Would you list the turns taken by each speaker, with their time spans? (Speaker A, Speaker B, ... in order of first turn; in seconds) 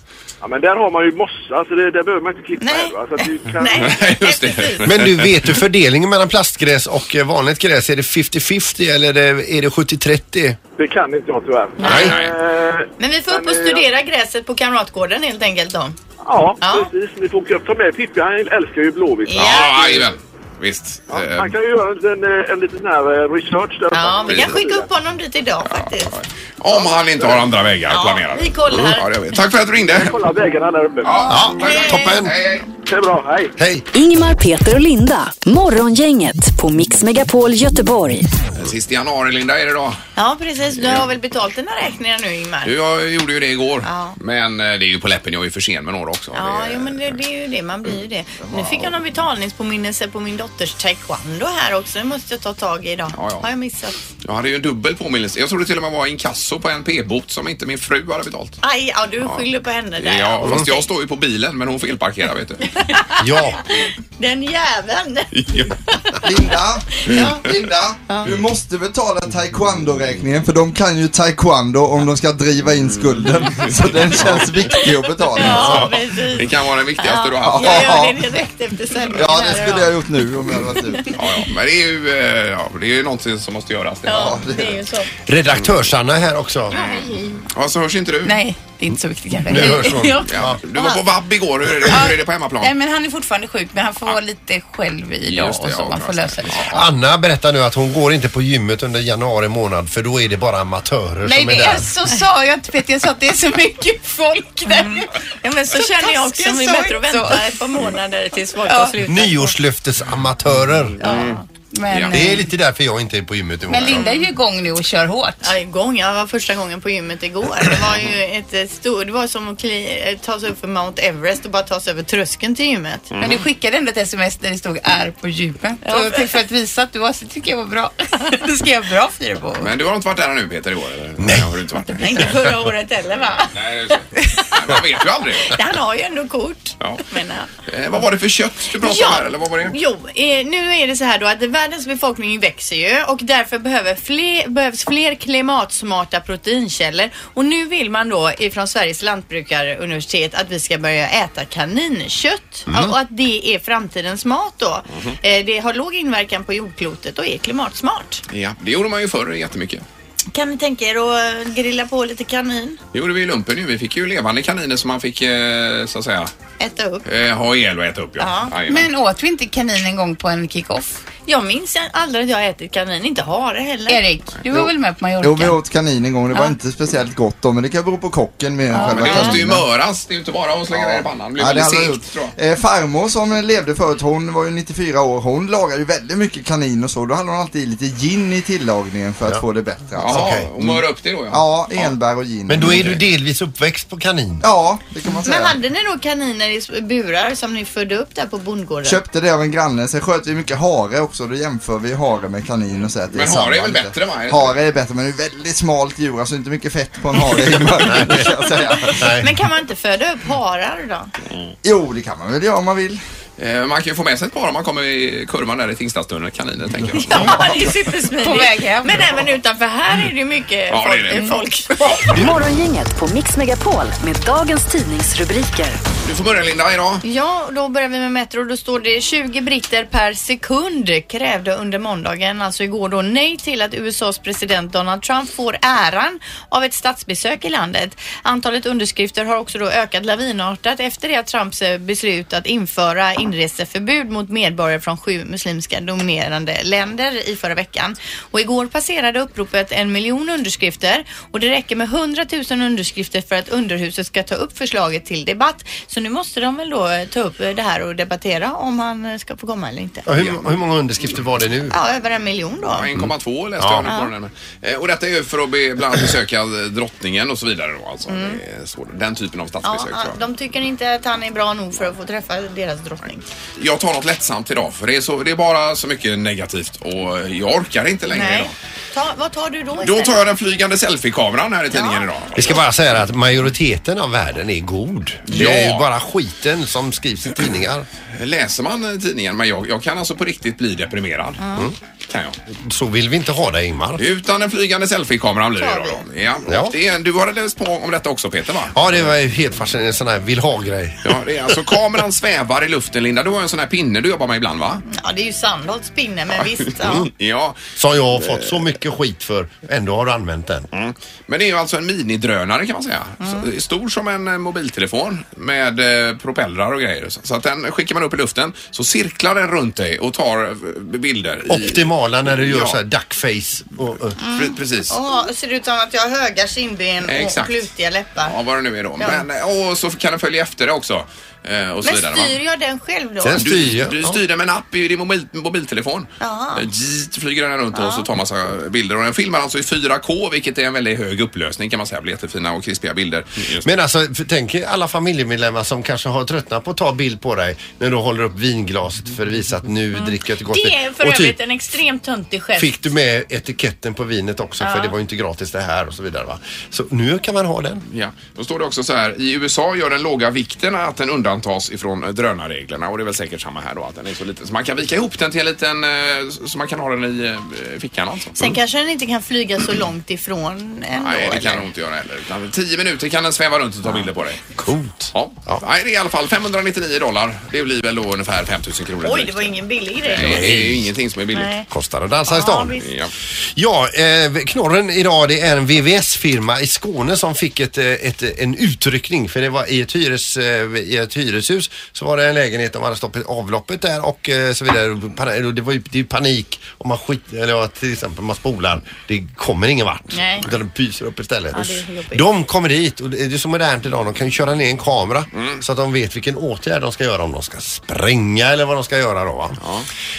Speaker A: 0.4-4.0, 10.8-13.9, 16.2-20.1, 21.1-24.9, 26.7-27.5, 29.9-31.4, 32.9-33.5
Speaker B: 2.6-5.1, 11.8-12.2, 13.0-16.0, 16.6-16.9, 19.3-20.0, 23.9-26.1, 27.9-29.1, 31.6-32.2, 40.2-42.8, 43.8-44.2, 46.3-54.0, 58.6-60.9, 62.8-66.5, 67.0-68.4, 74.7-80.0, 84.1-85.1, 86.7-87.5, 90.8-91.0, 104.7-109.5, 111.0-111.4, 114.0-114.2, 115.4-123.2, 125.9-126.3, 132.0-133.5, 135.4-137.5, 138.8-158.2, 160.3-162.8, 166.6-167.1, 168.2-168.6, 171.2-174.0, 178.7-179.4, 195.2-199.0, 209.1-211.1, 216.9-222.3, 227.0-260.1, 261.7-262.9, 263.9-264.1, 268.1-268.4, 269.6-273.2, 278.1-280.3, 281.7-282.6, 291.4-291.7, 295.6-296.0, 304.9-307.1, 324.2-328.4, 329.0-329.2, 331.9-333.7, 336.2-336.6, 337.7-338.1, 349.9-352.8, 354.6-354.9, 368.4-371.7, 379.0-380.6, 381.3-381.7, 382.3-382.9, 400.1-400.5, 401.5-402.2
Speaker C: 3.8-5.6, 11.8-12.3, 19.3-21.6, 24.3-24.6, 25.6-30.2, 31.0-32.7, 38.5-40.0, 40.8-41.1, 42.6-47.2, 48.5-48.9, 53.1-53.5, 54.2-58.6, 60.0-62.6, 65.3-65.7, 74.1-74.4, 75.4-78.1, 81.1-84.4, 85.5-85.8, 86.7-88.4, 89.5-92.7, 95.3-96.9, 111.0-111.4, 111.9-112.3, 123.1-123.4, 129.6-132.3, 133.5-135.6, 137.7-139.8, 158.3-159.8, 162.9-166.3, 167.1-168.9, 178.8-182.3, 190.0-191.9, 192.6-193.0, 203.1-204.6, 213.4-217.5, 220.7-221.3, 226.1-227.0, 260.2-260.4, 262.7-270.2, 273.6-278.6, 279.8-282.6, 285.3-285.9, 288.1-291.4, 292.1-292.4, 294.0-299.0, 301.0-304.8, 306.6-307.6, 308.2-308.6, 310.7-322.8, 324.3-325.0, 327.0-327.7, 328.2-332.4, 333.4-343.7, 357.9-368.6, 371.0-374.5, 375.1-381.5, 382.8-383.1, 409.6-409.9
Speaker D: 4.8-10.6, 11.8-12.1, 31.3-32.4, 33.6-33.9, 63.2-63.6, 85.3-86.8, 89.5-90.6, 96.7-101.9, 109.0-111.2, 112.1-114.1, 131.2-131.5, 152.7-152.9, 190.0-190.8, 192.5-194.4, 207.8-209.3, 260.1-261.8, 263.0-263.9, 282.3-287.9, 292.5-294.0, 296.5-296.7, 298.7-301.2, 307.8-310.7, 321.5-324.2, 333.2-334.2, 343.6-351.4, 352.6-357.8, 374.6-375.6, 380.1-380.9, 381.7-382.9, 383.4-409.6
Speaker E: 33.9-38.3, 222.1-225.8
Speaker F: 66.2-75.9, 77.4-78.2, 79.1-81.1, 84.1-84.8, 175.2-179.6, 180.7-190.3, 191.3-192.9, 194.4-195.6, 198.8-209.1, 211.6-213.0
Speaker G: 88.2-90.3, 91.9-96.8, 101.2-105.1, 105.8-107.5, 108.6-109.0, 111.0-112.5, 113.7-115.5, 123.2-129.7, 168.7-171.0, 173.9-175.6, 176.3-176.6, 178.7-179.1, 218.2-219.0, 221.1-221.4